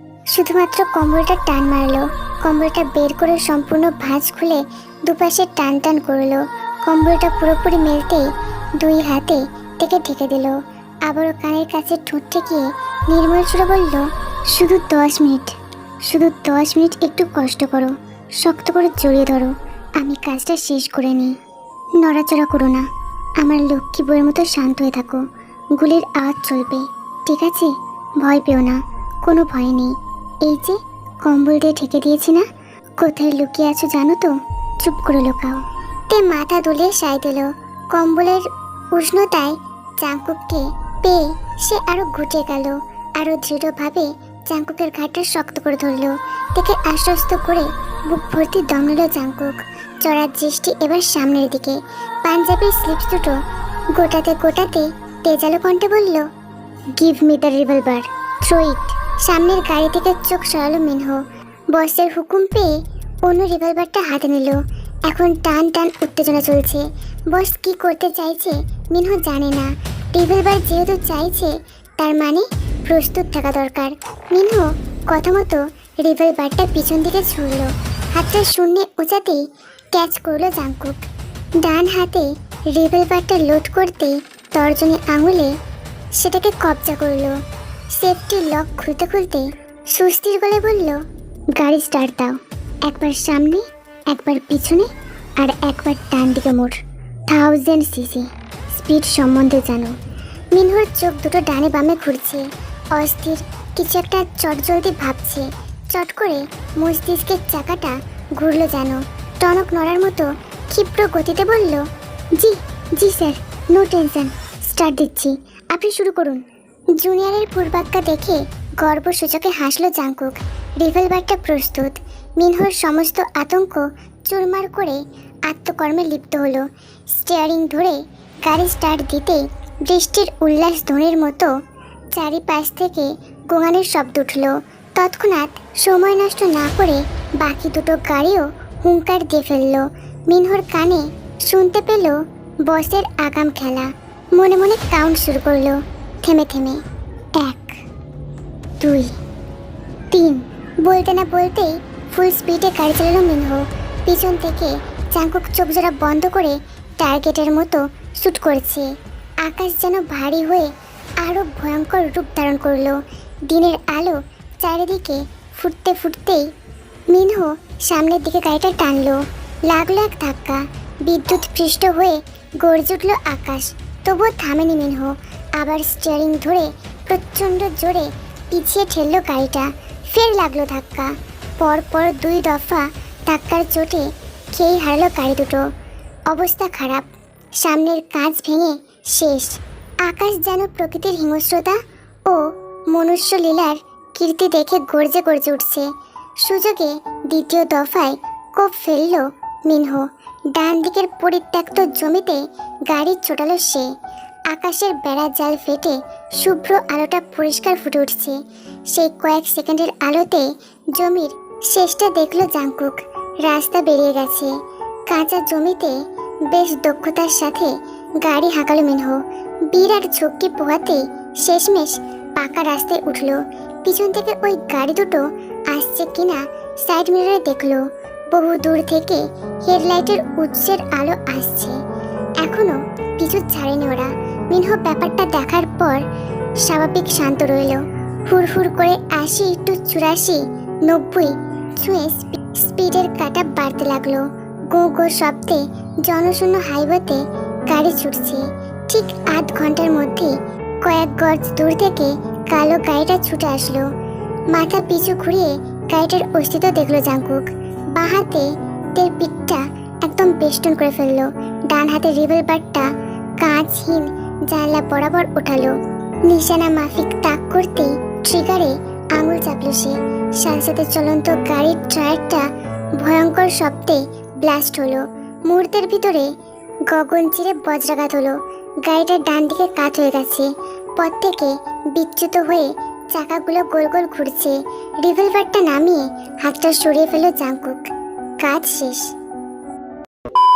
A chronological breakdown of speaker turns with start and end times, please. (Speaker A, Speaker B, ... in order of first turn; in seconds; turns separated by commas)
Speaker A: 0.3-21.4, Speaker A: 22.0-32.5, Speaker A: 33.0-53.4, Speaker A: 53.9-56.3, Speaker A: 56.9-81.0, Speaker A: 81.6-85.6, Speaker A: 86.1-91.0, Speaker A: 91.6-100.0, Speaker A: 100.5-131.5, Speaker A: 132.1-146.8, Speaker A: 147.3-147.8, Speaker A: 148.8-149.2, Speaker A: 150.1-158.9, Speaker A: 159.4-166.5, Speaker A: 167.1-185.7, Speaker A: 186.3-203.9, Speaker A: 204.5-231.8, Speaker A: 232.4-236.1, Speaker A: 236.6-253.9, Speaker A: 254.5-276.3, Speaker A: 276.9-289.1